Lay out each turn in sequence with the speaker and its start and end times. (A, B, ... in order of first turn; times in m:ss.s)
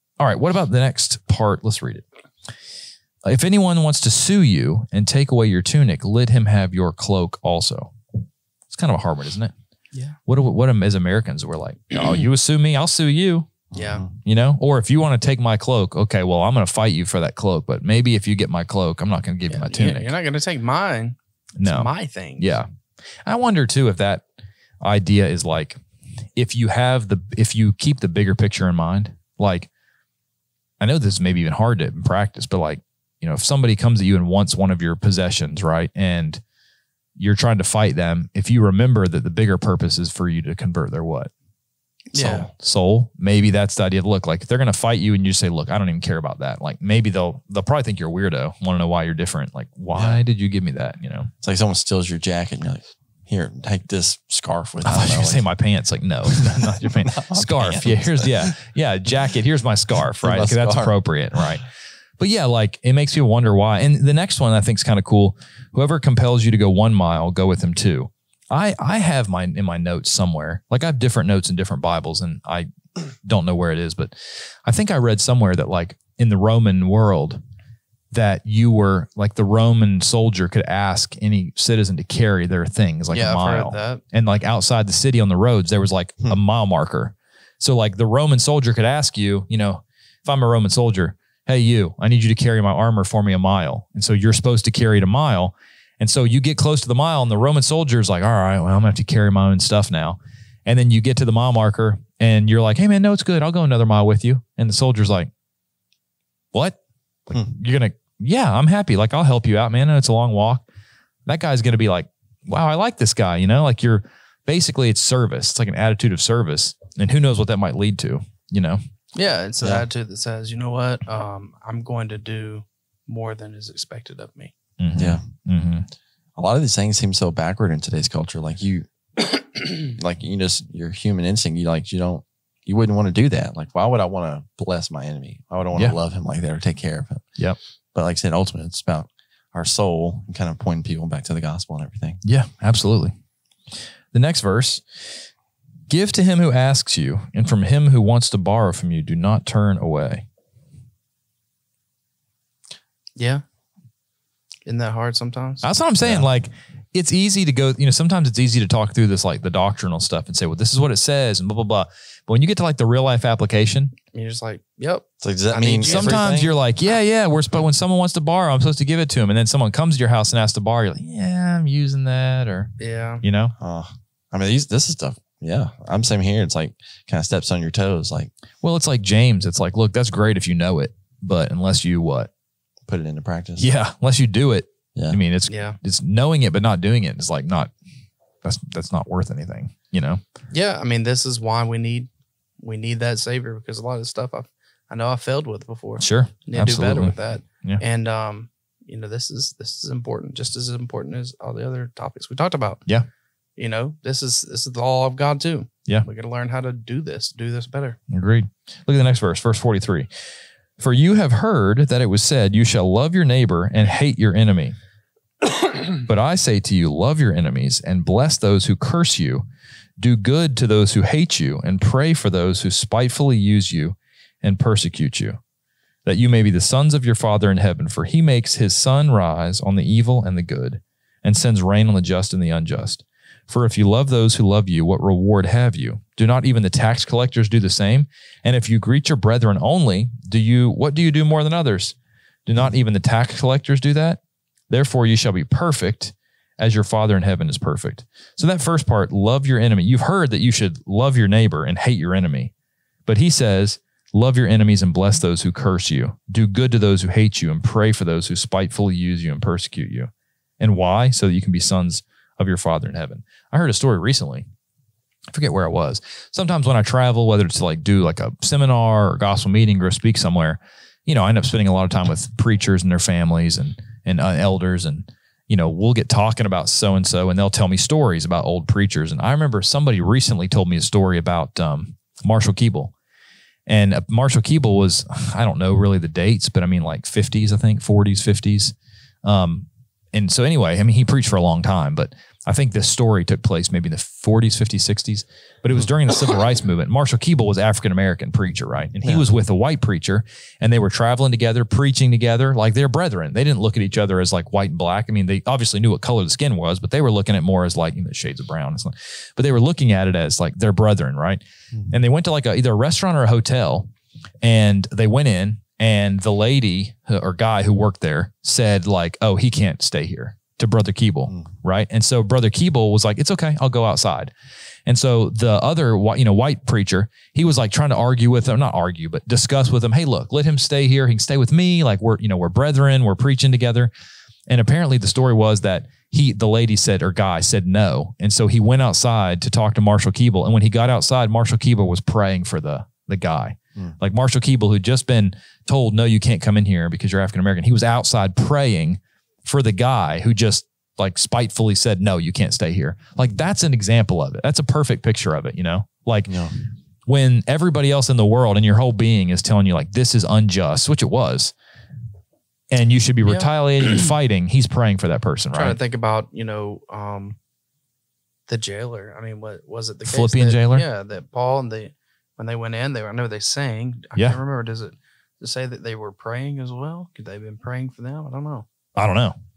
0:00.2-0:02.0 A
0:03.2-0:07.9 A
0:08.7-0:09.5 A
0:10.2-0:13.5 A
0:13.7-0:14.1 B
0:13.7-0:14.0 C
0:14.2-0:20.1 A
0:19.5-0:22.6 C
0:21.6-0:22.7 A
0:23.2-0:24.2 A
0:24.8-0:25.8 A
0:26.4-0:29.7 A
0:30.8-0:36.4 A
0:37.2-0:41.3 A
0:42.1-0:42.5 C
0:42.1-0:51.3 A
0:49.9-0:50.2 B
0:51.4-0:55.4 B
0:54.8-1:01.6 A
0:56.3-0:58.5 B
1:00.2-1:00.9 B
1:02.2-1:12.7 A
1:13.2-1:17.4 A
1:18.1-1:45.3 A
1:23.1-1:24.0 C
1:46.5-1:50.6 A
1:51.2-1:58.8 A
1:59.1-2:04.5 C
2:04.8-2:05.9 A
2:05.0-2:05.2 B
2:06.4-2:08.9 B
2:09.6-2:17.2 B
2:17.9-2:22.2 B
2:22.2-2:23.1 A
2:24.1-2:25.2 A
2:25.9-2:30.2 A
2:33.2-2:33.4 C
2:34.6-2:35.6 C
2:35.6-2:43.9 A
2:36.0-2:36.3 B
2:44.1-2:46.4 C
2:45.2-2:46.5 B
2:45.8-2:53.5 A
2:52.8-2:53.2 C
2:53.6-2:58.3 B
2:58.6-3:02.3 A
3:02.9-3:03.7 B
3:03.6-3:07.7 A
3:05.5-3:05.8 C
3:08.4-3:10.2 A
3:10.5-3:12.1 C
3:12.6-3:22.8 C
3:16.0-3:17.8 A
3:23.6-3:28.0 C
3:28.1-3:30.1 A
3:30.8-3:34.7 A
3:36.0-3:39.4 A
3:40.0-3:45.4 A
3:46.0-4:12.5 A
4:13.0-4:24.5 A
4:25.3-4:42.9 A
4:43.7-5:13.9 A
4:59.0-4:59.3 B
5:14.4-5:24.3 A
5:24.8-5:33.9 A
5:34.5-5:56.4 A
5:56.3-5:56.6 B
5:57.0-6:01.5 A
6:02.7-6:05.8 A
6:03.2-6:04.1 C
6:05.5-6:07.4 C
6:08.5-6:18.6 C
6:10.0-6:10.8 A
6:19.0-6:19.3 A